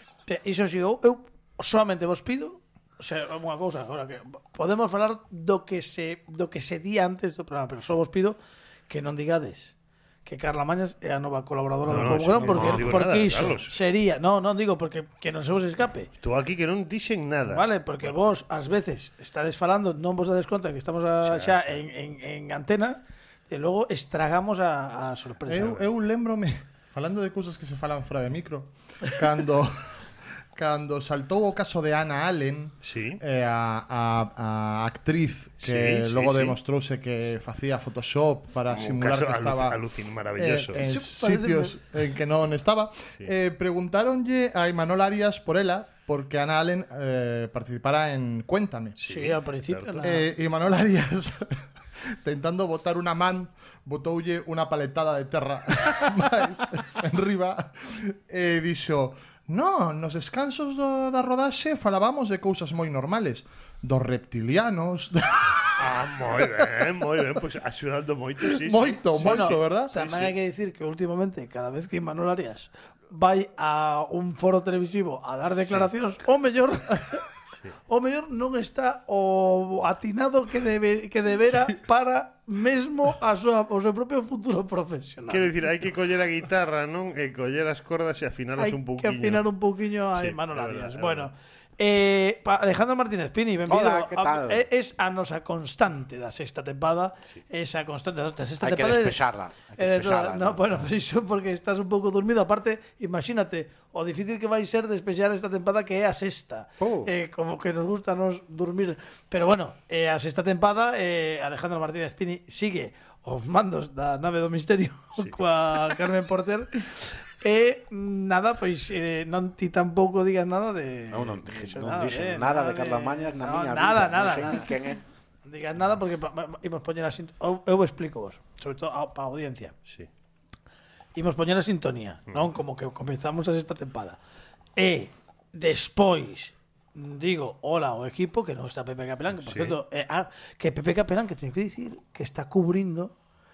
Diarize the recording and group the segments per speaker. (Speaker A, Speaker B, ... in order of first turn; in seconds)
Speaker A: 0.3-8.4, 8.9-9.7, 10.3-16.1, 17.5-25.9, 40.8-41.8, 49.0-50.3, 69.2-77.2, 77.9-85.5, 88.6-99.2, 99.8-124.7, 125.5-129.7, 131.2-134.2, 134.8-143.1
Speaker B: 11.9-13.7, 16.2-18.1, 21.2-21.9, 32.8-33.2, 35.6-36.6, 38.7-40.8, 49.0-50.0, 65.8-70.3, 75.7-75.9, 85.3-89.5, 90.1-91.3, 139.4-139.8
Speaker C: 12.4-12.9, 25.5-30.0, 30.5-39.8, 40.4-49.0, 50.0-66.7, 68.4-70.0
Speaker D: 93.7-94.6, 98.6-100.9, 106.8-107.1, 121.1-125.0